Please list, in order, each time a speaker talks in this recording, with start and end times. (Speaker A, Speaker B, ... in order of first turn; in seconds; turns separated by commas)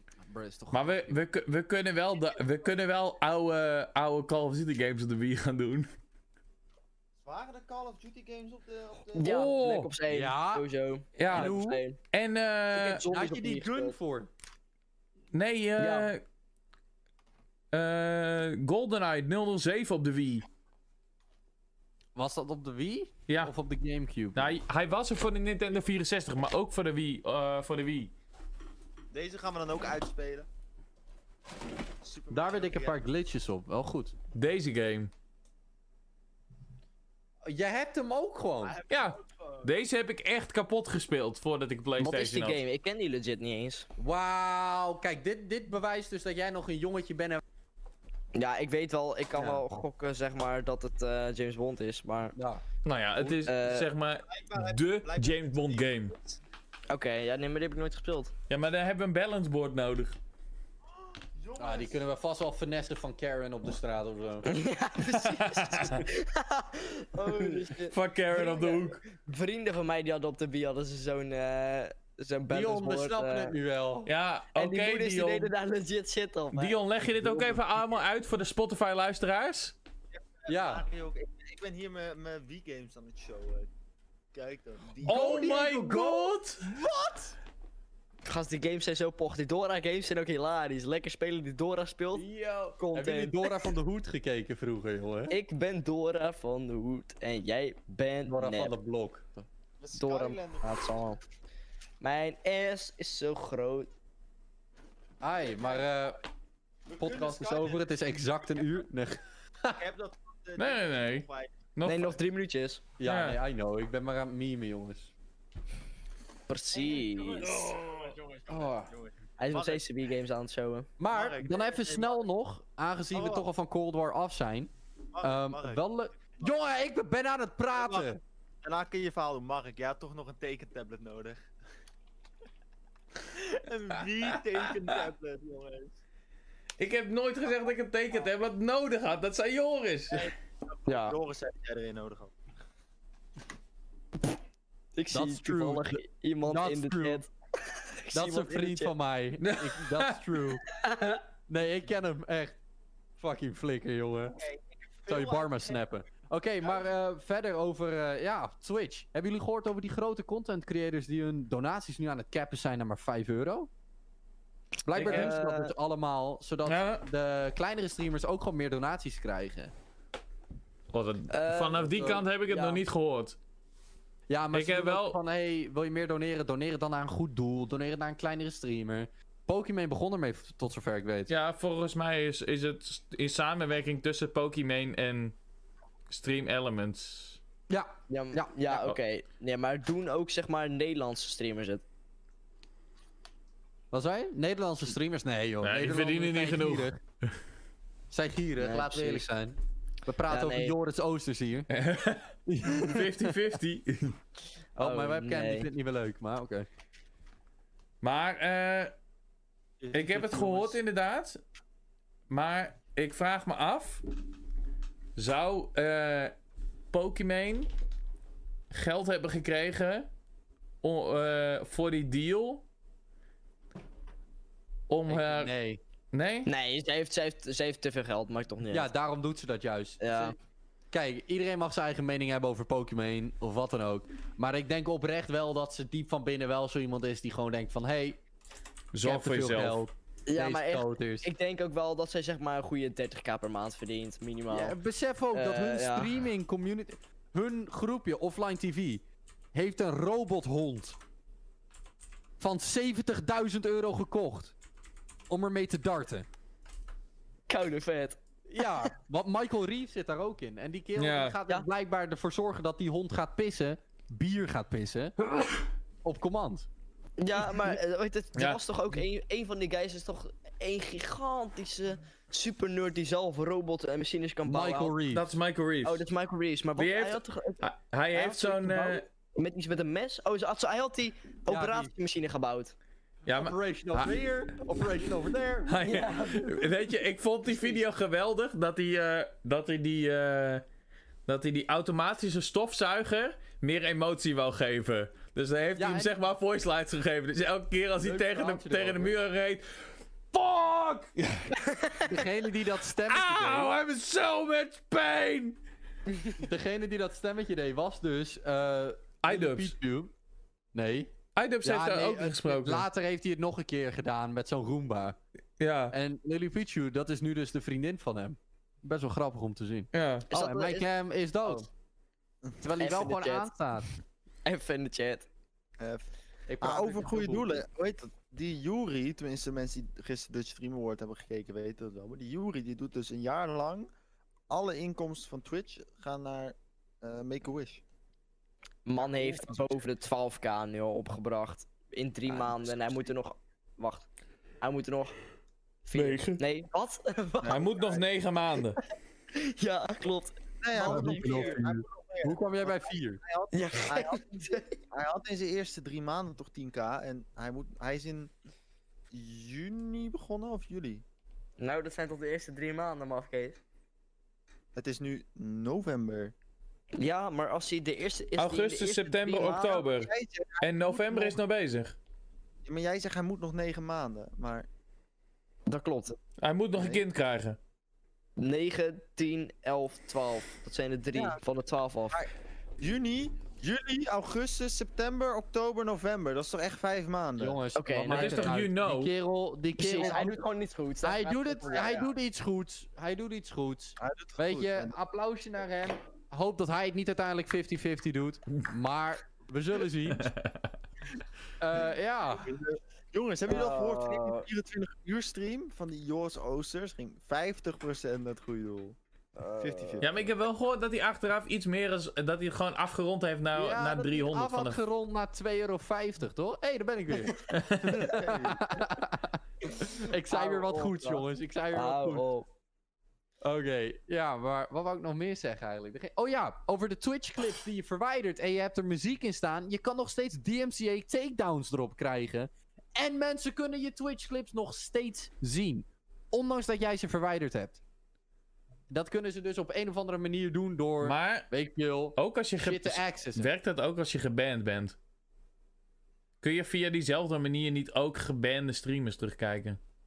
Speaker A: 0.2-1.2, Speaker B: 0.7-5.9, Speaker C: 2.2-2.7, Speaker C: 7.2-9.5, Speaker D: 9.1-12.0, Speaker B: 9.2-9.9, Speaker A: 10.1-10.7, Speaker B: 11.2-11.6, Speaker A: 11.3-11.8, Speaker B: 12.1-13.1, Speaker D: 12.7-13.9, Speaker A: 13.0-14.3, Speaker B: 15.3-16.2, Speaker D: 15.8-16.1, Speaker B: 17.7-20.5, Speaker A: 22.1-24.6, Speaker B: 23.3-23.5, Speaker B: 24.3-28.1, Speaker C: 29.1-30.5, Speaker C: 32.0-33.0, Speaker A: 32.3-34.1, Speaker B: 34.3-35.1, Speaker A: 37.4-38.8, Speaker C: 38.6-39.7, Speaker B: 38.9-42.6, Speaker D: 42.0-43.9, Speaker A: 44.0-47.4, Speaker D: 48.3-52.4, Speaker A: 49.4-49.6, Speaker A: 52.4-52.6, Speaker B: 52.8-56.1, Speaker D: 53.4-53.9, Speaker C: 54.3-56.1, Speaker D: 56.9-58.3, Speaker B: 58.5-60.2, Speaker C: 61.4-62.0, Speaker A: 61.6-64.5, Speaker D: 64.5-73.5, Speaker B: 65.2-66.0, Speaker C: 67.2-67.6, Speaker B: 67.8-69.0, Speaker A: 72.5-74.1, Speaker B: 74.0-75.5, Speaker D: 74.5-76.8, Speaker B: 76.5-79.7, Speaker C: 80.1-83.7, Speaker A: 80.5-80.8, Speaker C: 84.3-85.9, Speaker B: 85.0-86.7, Speaker A: 85.0-87.3, Speaker D: 88.2-92.2, Speaker A: 92.1-95.3, Speaker D: 92.8-93.7, Speaker D: 95.3-98.7, Speaker A: 98.3-99.5, Speaker C: 99.8-100.7, Speaker D: 99.9-101.2, Speaker D: 102.0-103.9, Speaker A: 105.2-106.2, Speaker C: 105.4-105.8, Speaker C: 106.9-107.9, Speaker A: 107.0-109.8, Speaker C: 109.7-111.6, Speaker B: 110.6-112.2, Speaker D: 111.8-112.8, Speaker A: 113.0-115.1, Speaker B: 113.0-113.4, Speaker D: 116.5-117.7, Speaker C: 116.7-119.8, Speaker A: 118.5-118.9, Speaker D: 119.4-120.9, Speaker A: 121.0-128.2, Speaker C: 121.1-122.3, Speaker C: 123.1-123.5, Speaker C: 125.1-126.7, Speaker C: 127.7-131.5, Speaker C: 133.2-136.0, Speaker B: 136.8-140.3, Speaker C: 140.1-142.3, Speaker D: 140.9-141.2, Speaker D: 144.9-148.9, Speaker A: 145.1-147.2, Speaker A: 148.1-152.6, Speaker B: 149.6-150.1, Speaker D: 150.8-151.2, Speaker A: 153.2-154.4, Speaker C: 154.3-155.8, Speaker A: 155.1-163.7, Speaker A: 164.8-169.7, Speaker B: 164.9-165.3, Speaker D: 165.0-165.7, Speaker B: 166.7-167.0, Speaker B: 170.9-173.3, Speaker D: 171.3-172.8, Speaker A: 174.3-181.3, Speaker B: 174.5-175.2, Speaker B: 181.3-185.3, Speaker B: 186.1-187.4, Speaker A: 187.7-188.5, Speaker D: 188.1-191.8, Speaker B: 188.7-188.9, Speaker A: 193.9-196.9, Speaker B: 195.6-197.4, Speaker A: 198.1-201.7, Speaker D: 198.6-199.3, Speaker D: 200.3-200.8, Speaker B: 201.7-204.2, Speaker A: 202.5-203.3, Speaker D: 204.8-205.7, Speaker A: 204.8-206.7, Speaker B: 208.0-208.9, Speaker C: 209.8-210.8, Speaker B: 209.9-211.4, Speaker B: 212.3-214.0, Speaker B: 215.2-216.3, Speaker B: 216.9-217.7, Speaker B: 218.7-220.1, Speaker B: 220.8-222.6, Speaker B: 224.9-225.5, Speaker A: 225.1-225.8, Speaker B: 226.1-226.5, Speaker D: 226.4-228.9, Speaker A: 228.7-230.4, Speaker D: 230.0-230.3, Speaker A: 230.9-238.2, Speaker B: 238.9-239.8, Speaker A: 239.0-241.3, Speaker D: 240.3-244.8, Speaker A: 244.5-249.0, Speaker D: 245.3-246.1, Speaker A: 249.5-251.0, Speaker A: 252.4-254.5, Speaker A: 255.3-256.3, Speaker D: 257.5-258.9, Speaker A: 258.5-265.5, Speaker B: 260.9-261.4, Speaker A: 266.0-266.7, Speaker D: 267.2-274.9, Speaker A: 274.4-275.2, Speaker B: 275.1-276.1, Speaker D: 275.8-282.7, Speaker B: 276.8-279.0, Speaker A: 281.5-281.9, Speaker B: 283.2-284.1, Speaker A: 283.3-285.8, Speaker B: 285.6-290.6, Speaker D: 285.8-286.7, Speaker B: 291.3-301.5, Speaker A: 295.8-296.1, Speaker A: 298.0-299.1, Speaker D: 301.6-302.0, Speaker A: 302.0-303.7, Speaker B: 303.1-305.6, Speaker D: 306.1-306.4, Speaker A: 306.4-310.1, Speaker B: 309.2-309.7, Speaker A: 310.7-315.2, Speaker B: 311.3-312.9, Speaker B: 315.6-315.9, Speaker A: 315.9-321.7, Speaker B: 319.9-320.2, Speaker D: 320.3-320.9, Speaker A: 322.6-323.9, Speaker D: 322.8-323.5, Speaker D: 324.4-325.3, Speaker C: 325.8-326.1, Speaker A: 326.5-327.6, Speaker C: 326.6-333.9, Speaker C: 334.5-337.8, Speaker D: 338.9-344.1, Speaker C: 339.0-339.8, Speaker C: 342.3-343.1, Speaker D: 344.6-345.1, Speaker D: 345.9-347.6, Speaker B: 345.9-346.4, Speaker C: 347.4-348.0, Speaker B: 347.4-348.8, Speaker D: 349.4-351.6, Speaker C: 350.6-358.3, Speaker A: 350.8-353.2, Speaker D: 353.5-354.7, Speaker C: 359.1-361.0, Speaker D: 361.6-363.6, Speaker C: 364.7-366.3, Speaker D: 367.0-369.8, Speaker B: 368.4-371.9, Speaker C: 369.3-371.4, Speaker C: 372.6-374.7, Speaker D: 375.7-376.1, Speaker B: 376.4-377.6, Speaker C: 376.7-377.0, Speaker D: 378.4-382.2, Speaker C: 381.1-381.4, Speaker C: 382.1-387.6, Speaker A: 387.4-390.4, Speaker D: 387.7-388.5, Speaker B: 388.1-389.1, Speaker D: 389.8-392.0, Speaker C: 389.9-390.3, Speaker A: 391.0-400.3, Speaker C: 391.6-392.1, Speaker C: 394.0-395.0, Speaker B: 400.1-400.6, Speaker A: 401.6-402.5, Speaker C: 402.3-409.0, Speaker D: 403.5-404.5, Speaker D: 409.4-410.0, Speaker C: 409.6-410.3, Speaker B: 410.0-414.8, Speaker A: 413.5-422.2, Speaker B: 417.5-418.1, Speaker C: 417.9-418.9, Speaker D: 419.7-422.5, Speaker A: 423.4-437.8, Speaker A: 438.9-443.5, Speaker B: 441.0-441.5, Speaker B: 442.1-444.9, Speaker B: 446.4-449.8